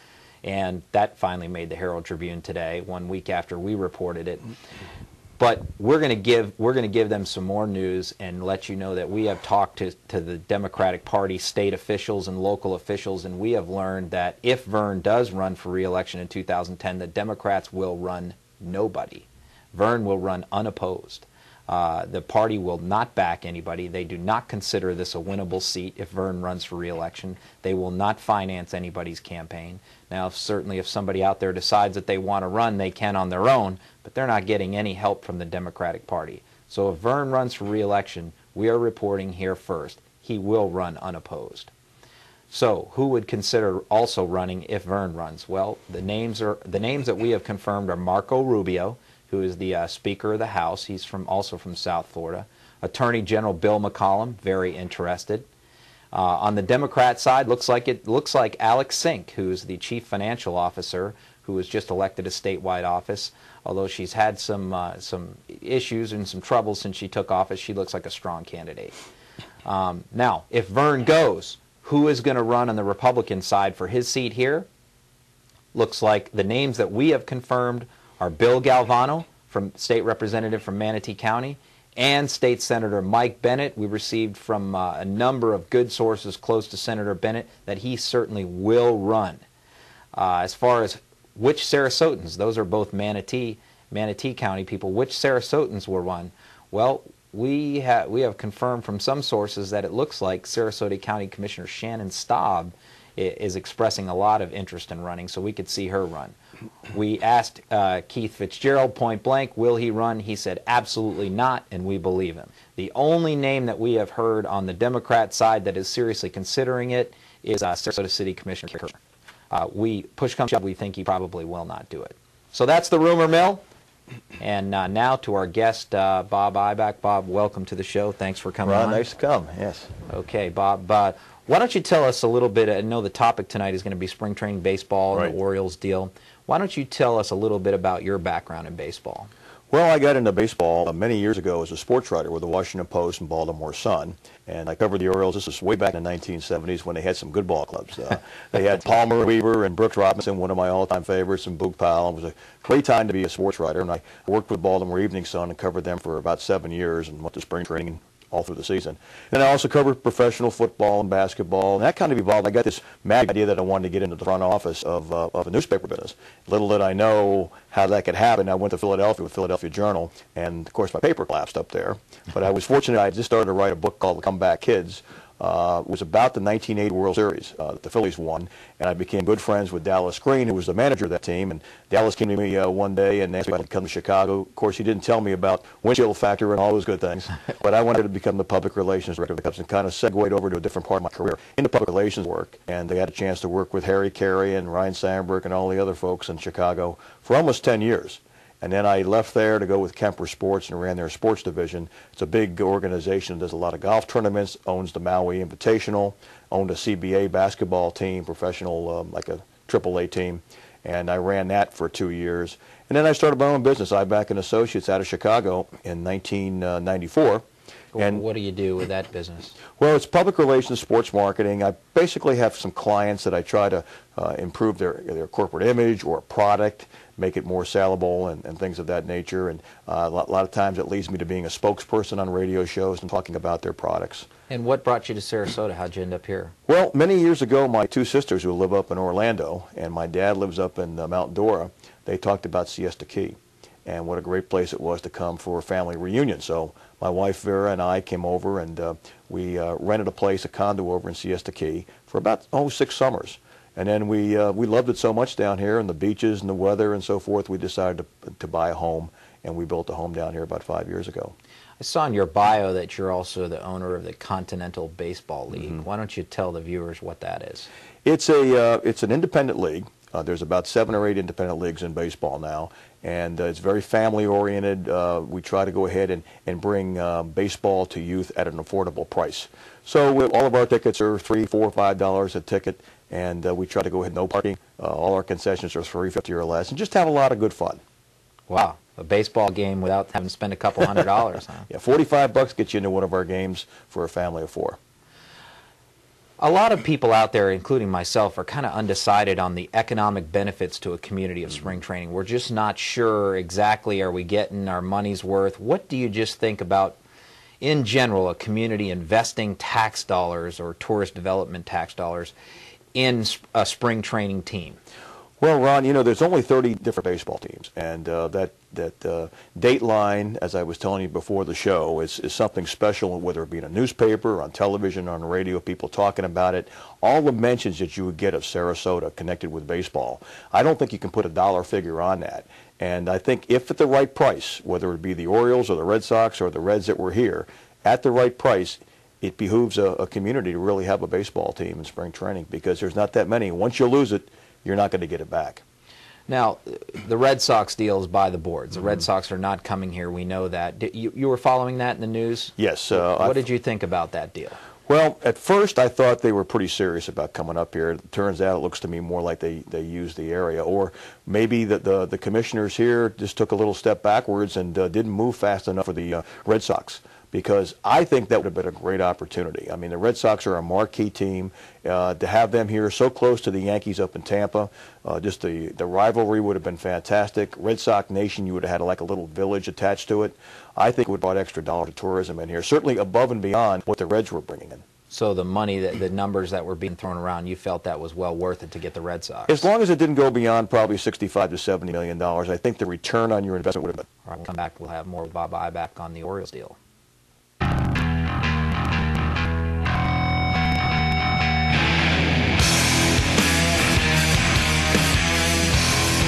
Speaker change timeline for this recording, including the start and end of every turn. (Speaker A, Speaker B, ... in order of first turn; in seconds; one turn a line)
Speaker A: 0.4-4.4
Speaker A: 5.4-41.7
Speaker A: 42.5-55.5
Speaker A: 56.1-69.0
Speaker A: 69.6-74.7
Speaker A: 75.7-89.4
Speaker A: 90.1-106.3
Speaker A: 106.9-119.0
Speaker A: 119.5-123.6
Speaker A: 124.4-129.0
Speaker B: 128.6-129.9
Speaker A: 130.1-139.3
Speaker B: 139.7-217.4
Speaker A: 217.9-219.6
Speaker B: 218.0-218.2
Speaker B: 219.8-234.3
Speaker A: 234.5-236.5
Speaker B: 236.7-261.3
Speaker A: 261.8-267.7
Speaker B: 268.0-287.8
Speaker A: 288.5-291.7
Speaker B: 291.7-294.8
Speaker A: 296.4-307.0
Speaker A: 307.6-312.3
Speaker A: 312.9-314.8
Speaker B: 315.4-345.6
Speaker A: 346.3-354.6
Speaker B: 352.6-353.4
Speaker B: 354.9-384.8
Speaker A: 385.1-389.7
Speaker B: 389.5-394.1
Speaker A: 394.2-396.8